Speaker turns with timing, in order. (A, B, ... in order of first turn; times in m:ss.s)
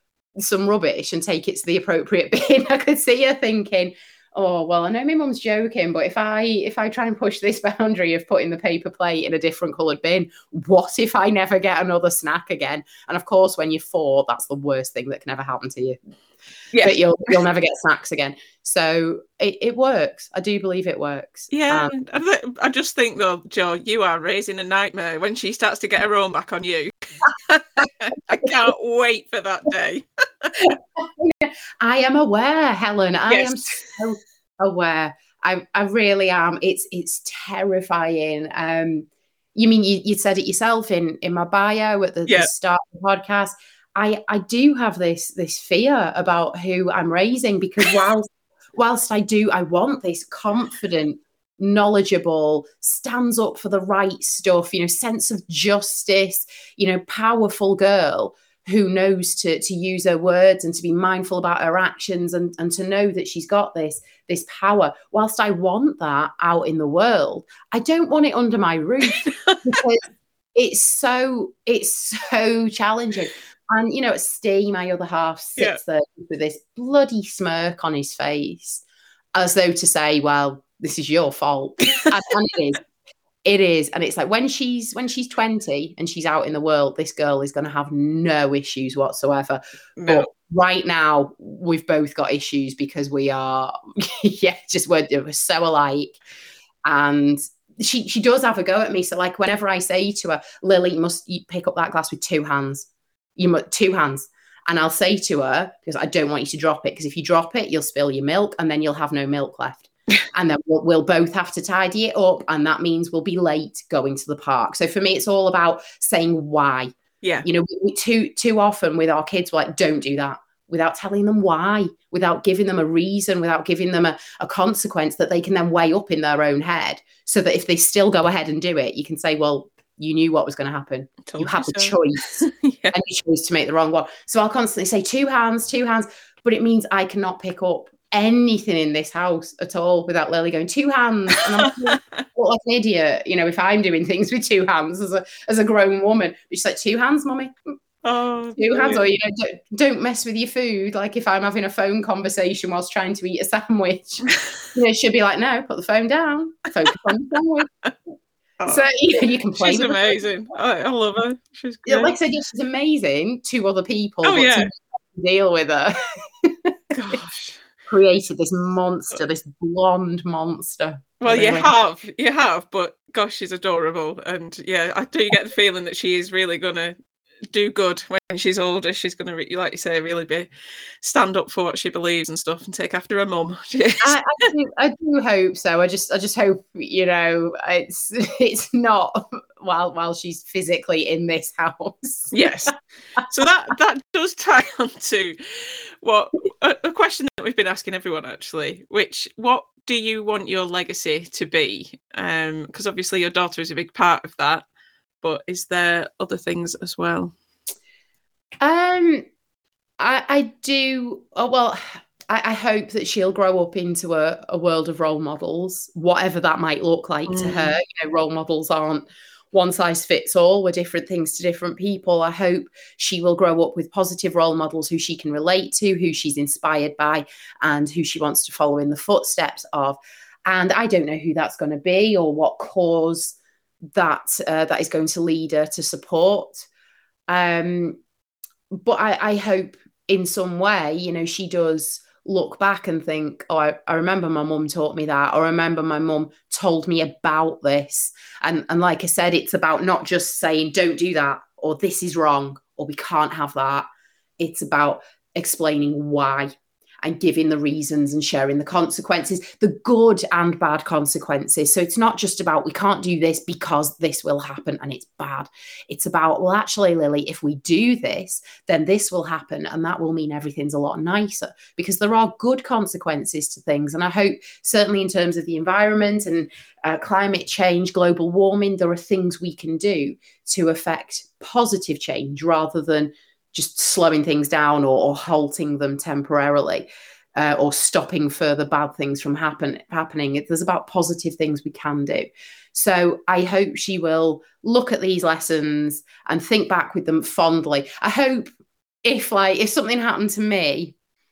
0:00.4-0:16.0 A
0:16.8-0:22.0 A
0:21.5-0:30.7 B
0:30.6-1:18.8 A
0:33.3-0:33.9 B
1:09.3-1:09.8 B
1:19.4-1:22.8 A
1:23.4-1:36.2 A
1:30.0-1:30.3 B
1:36.8-1:56.9 A
1:57.4-2:27.7 A
2:11.3-2:13.0 B
2:21.6-2:22.0 B
2:28.0-2:29.1 B
2:28.6-2:37.7 A
2:38.7-2:40.1 A
2:39.6-2:42.1 B
2:41.9-2:46.7 A
2:44.2-2:44.7 B
2:46.9-2:47.6 B
2:47.9-2:51.7 A
2:51.2-2:57.0 B
2:57.5-3:00.5 B
3:01.0-3:04.2 B
3:04.0-3:12.5 A
3:12.3-3:12.7 B
3:13.3-3:24.6 B
3:25.2-3:27.3 B
3:28.6-3:29.2 A
3:30.0-3:53.4 A
3:37.3-3:37.8 B
3:54.0-3:56.7 A
3:57.3-3:58.0 A
3:58.8-4:13.9 A
4:14.4-4:58.5 A
4:59.0-5:01.0 A